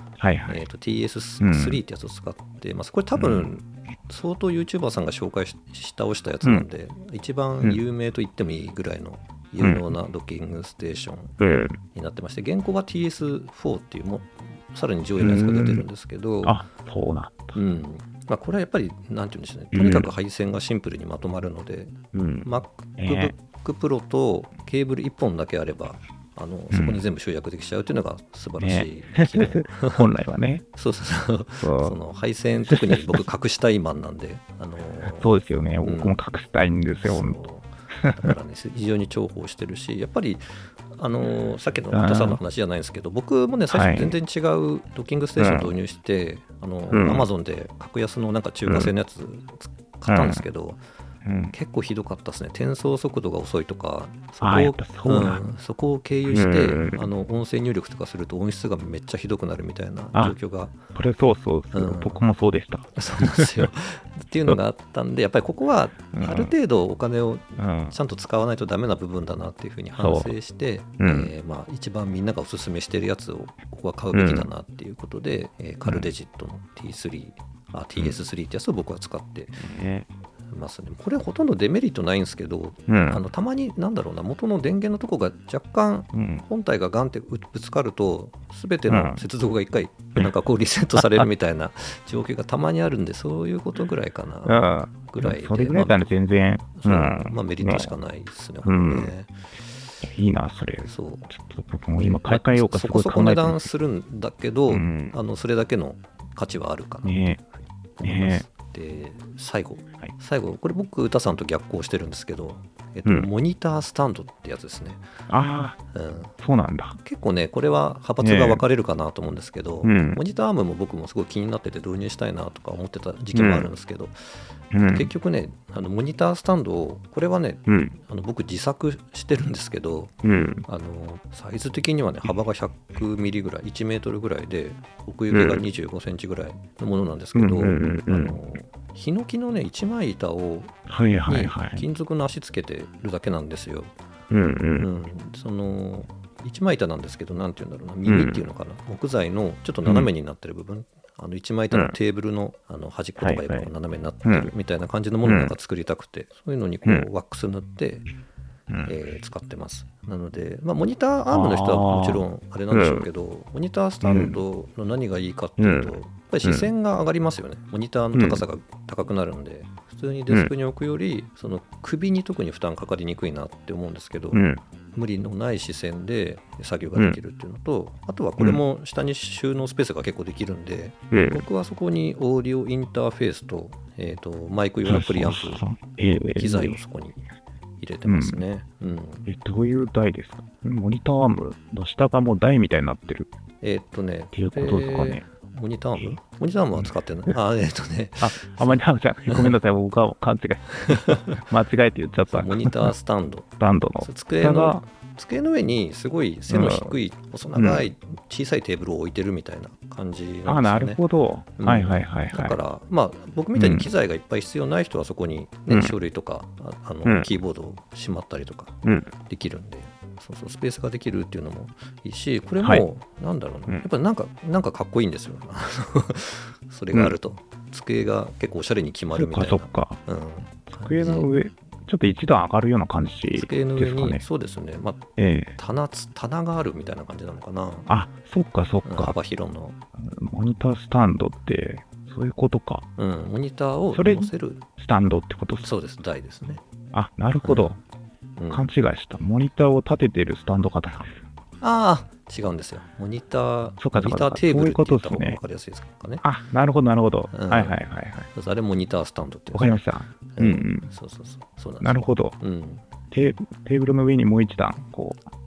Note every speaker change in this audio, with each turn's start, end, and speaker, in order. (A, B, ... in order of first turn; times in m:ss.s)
0:00.2-0:00.6 A
0:00.5-0:16.6 B
0:01.4-0:01.8 A
0:03.2-0:03.5 A
0:09.6-0:09.9 A
0:11.4-0:11.8 A
0:15.2-0:15.8 A
0:16.4-0:17.6 A
0:17.5-0:30.0 B
0:19.7-0:20.1 A
0:22.1-0:23.3 A
0:26.7-0:27.0 A
0:28.6-0:30.6 A
0:30.8-0:36.2 B
0:31.6-0:32.0 A
0:32.7-0:33.3 A
0:35.2-0:37.4 A
0:37.0-0:50.8 B
0:38.0-0:38.3 A
0:41.9-0:42.4 A
0:43.7-0:44.2 A
0:45.4-0:45.7 A
0:46.9-0:47.3 A
0:48.7-0:48.9 A
0:50.1-0:50.4 A
0:51.2-0:51.5 A
0:51.5-1:00.8 B
0:54.4-0:55.4 A
0:56.3-0:57.1 A
1:00.9-1:03.7 A
1:01.7-1:02.2 B
1:02.9-1:19.7 B
1:06.1-1:06.5 A
1:07.6-1:07.9 A
1:10.0-1:10.3 A
1:11.0-1:11.3 A
1:14.1-1:14.5 A
1:15.8-1:16.1 A
1:19.6-1:20.1 A
1:20.5-1:36.0 B
1:22.9-1:23.2 A
1:26.1-1:26.4 A
1:28.9-1:29.2 A
1:34.4-1:37.9 A
1:36.7-1:39.4 B
1:38.6-1:39.1 A
1:40.0-1:43.7 A
1:40.8-1:41.3 B
1:42.0-1:55.0 B
1:44.7-1:45.1 A
1:47.0-1:47.4 A
1:48.0-1:48.4 A
1:55.3-1:55.8 A
1:55.9-1:56.3 B
1:56.4-1:57.0 A
1:57.0-2:23.9 B
1:58.2-1:58.6 A
1:59.8-2:00.2 A
2:03.3-2:03.7 A
2:04.7-2:05.1 A
2:07.7-2:07.9 A
2:10.2-2:10.6 A
2:15.3-2:15.6 A
2:17.3-2:18.4 A
2:20.9-2:21.8 A
2:24.3-2:24.9 A
2:24.8-2:38.0 B
2:28.0-2:28.4 A
2:33.2-2:33.7 A
2:34.2-2:34.5 A
2:35.2-2:35.5 A
2:38.8-3:05.6 B
2:41.3-2:43.1 A
2:44.0-2:44.4 A
2:45.6-2:45.9 A
2:46.4-2:46.7 A
2:48.1-2:48.4 A
2:54.3-2:54.6 A
3:01.1-3:01.4 A
3:04.8-3:06.8 A
3:06.4-3:07.2 B
3:07.8-3:09.3 B
3:08.0-3:08.4 A
3:09.2-3:13.3 A
3:13.6-3:19.5 B
3:14.3-3:15.2 A
3:18.2-3:22.9 A
3:20.8-3:21.4 B
3:22.3-3:23.5 B
3:23.6-3:24.8 A
3:24.0-3:31.0 B
3:26.5-3:26.9 A
3:27.6-3:27.8 A
3:30.4-3:32.6 A
3:31.6-3:51.3 B
3:33.6-3:33.9 A
3:38.8-3:39.1 A
3:49.1-3:50.0 A
3:50.8-3:54.2 A
3:53.3-3:55.0 B
3:55.2-3:55.5 A
3:55.6-3:57.9 B
3:57.9-3:59.2 A
3:58.8-3:59.8 B
4:00.0-4:02.8 A
4:03.0-4:04.6 B
4:03.9-4:05.7 A
4:05.6-4:06.6 B
4:06.9-4:07.8 A
4:07.4-4:07.8 B
4:08.4-4:08.6 B
4:08.5-4:11.1 A
4:11.6-4:16.2 B
4:13.8-4:15.4 A
4:16.2-4:18.3 A
4:17.3-4:17.8 B
4:18.3-4:22.8 B
4:19.5-4:20.9 A
4:21.8-4:22.4 A
4:23.1-4:25.2 A